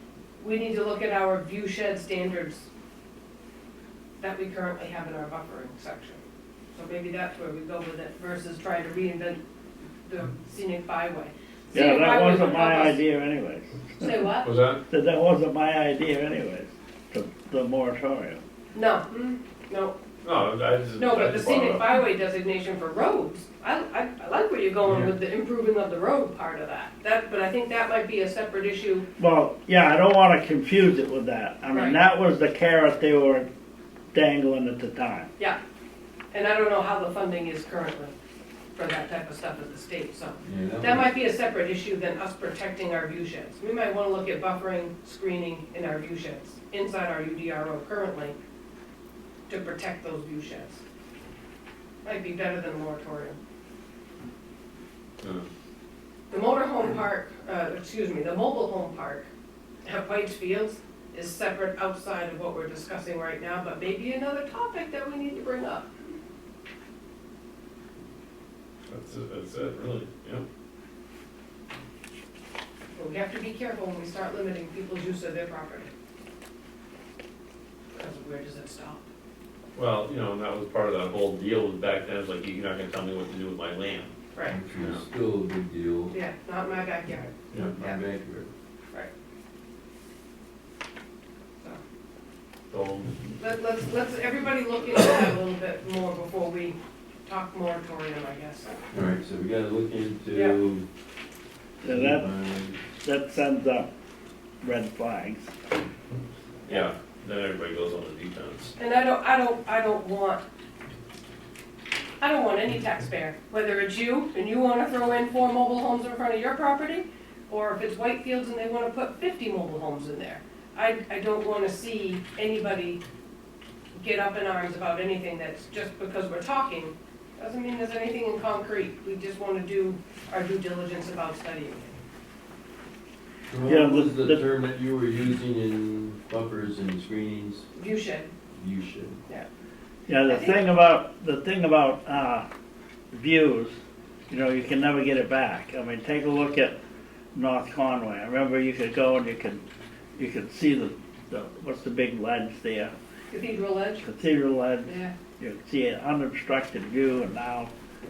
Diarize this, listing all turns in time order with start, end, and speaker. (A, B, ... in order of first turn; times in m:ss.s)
0:00.4-0:02.7 A
0:04.2-0:06.2 A
0:06.7-0:09.4 A
0:10.0-0:13.0 A
0:11.7-0:14.3 B
0:14.0-0:14.5 A
0:14.4-0:14.8 C
0:14.9-0:18.4 B
0:18.7-0:20.0 A
0:20.2-0:21.9 C
0:21.0-0:29.1 A
0:24.8-0:25.1 D
0:29.2-0:33.5 B
0:31.7-0:32.0 A
0:34.1-0:35.3 B
0:36.3-0:38.1 A
0:38.8-0:48.3 A
0:40.4-0:41.1 D
0:49.5-0:50.8 A
0:52.0-0:53.4 A
0:55.2-0:55.5 C
0:56.3-0:59.3 A
0:59.8-1:05.9 A
1:08.9-1:10.4 C
1:12.9-1:15.9 A
1:17.9-1:19.1 A
1:19.8-1:24.1 C
1:24.5-1:26.1 D
1:24.8-1:25.0 C
1:26.1-1:28.0 A
1:27.6-1:28.5 D
1:32.7-1:33.4 C
1:33.4-1:38.8 A
1:38.9-1:40.9 D
1:41.8-1:42.3 B
1:41.8-1:42.8 D
1:43.0-1:43.9 B
1:44.6-1:45.5 B
1:46.7-1:48.8 C
1:48.8-1:50.4 A
1:52.2-2:03.0 A
2:04.0-2:12.0 A
2:13.5-2:17.7 D
2:13.6-2:14.4 B
2:17.7-2:18.3 A
2:18.5-2:19.2 D
2:20.1-2:22.5 B
2:20.2-2:20.6 A
2:23.1-2:26.8 B
2:27.3-2:29.6 B
2:30.2-2:32.9 B
2:33.3-2:34.0 A
2:34.0-2:37.7 B
2:34.8-2:35.1 A